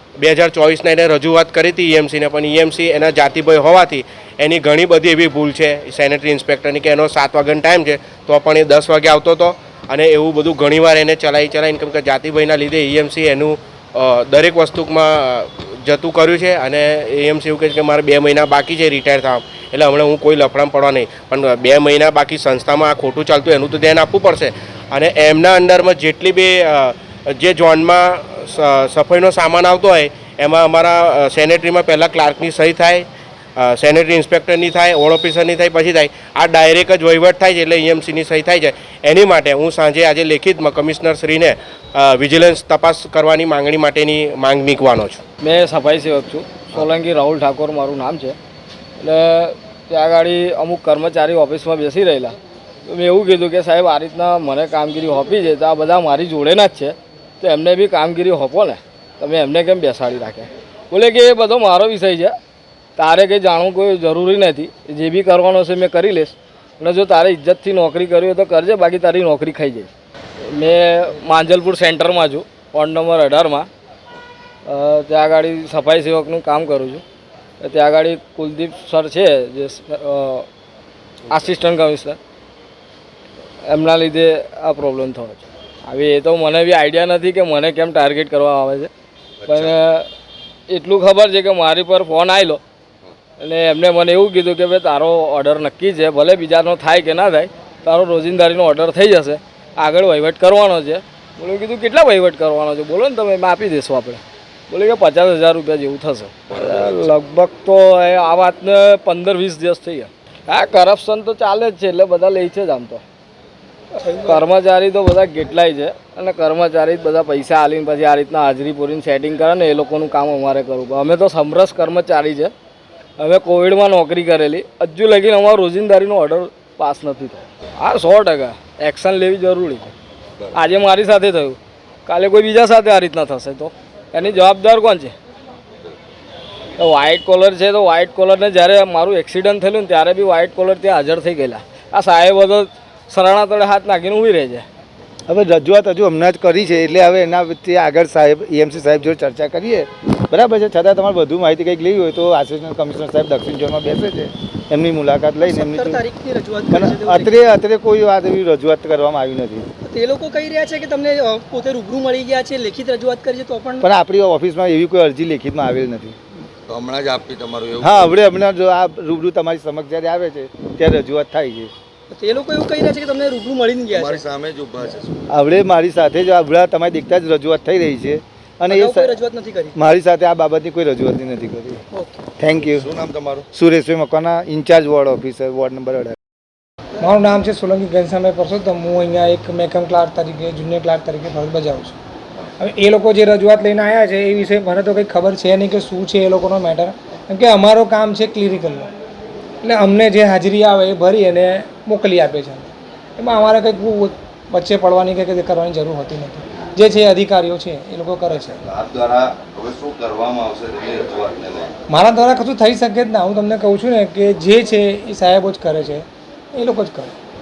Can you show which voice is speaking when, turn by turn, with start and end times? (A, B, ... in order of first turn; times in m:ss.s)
0:00.2-0:33.1 A
0:33.6-0:45.2 A
0:45.4-0:48.4 B
0:49.0-0:52.3 B
0:52.9-1:02.3 B
1:03.0-1:09.9 B
1:10.5-1:13.7 B
1:14.7-1:17.0 B
1:17.6-1:20.5 B
1:21.3-1:22.2 B
1:23.7-1:28.9 B
1:29.4-1:30.1 B
1:30.7-1:32.6 B
1:33.4-1:53.0 B
1:54.0-1:54.3 C
1:54.2-2:02.5 B
2:03.2-2:09.9 B
2:10.5-2:15.1 B
2:16.8-2:24.6 B
2:25.3-2:36.0 D
2:35.4-2:37.3 C
2:36.7-2:39.6 D
2:39.8-2:43.8 C
2:43.8-2:46.2 D
2:46.7-2:48.2 E
2:47.8-2:51.7 D
2:52.1-2:54.3 C
2:54.0-2:54.8 E
2:55.3-2:59.2 D
2:58.7-2:59.8 C
2:59.7-3:01.8 D
3:01.9-3:02.2 C
3:02.4-3:02.9 D
3:02.6-3:03.4 E
3:03.5-3:06.2 D
3:07.0-3:12.0 F
3:07.0-3:07.4 C
3:12.6-3:18.9 F
3:19.6-3:28.7 F
3:28.6-3:31.7 E
3:31.9-3:37.1 F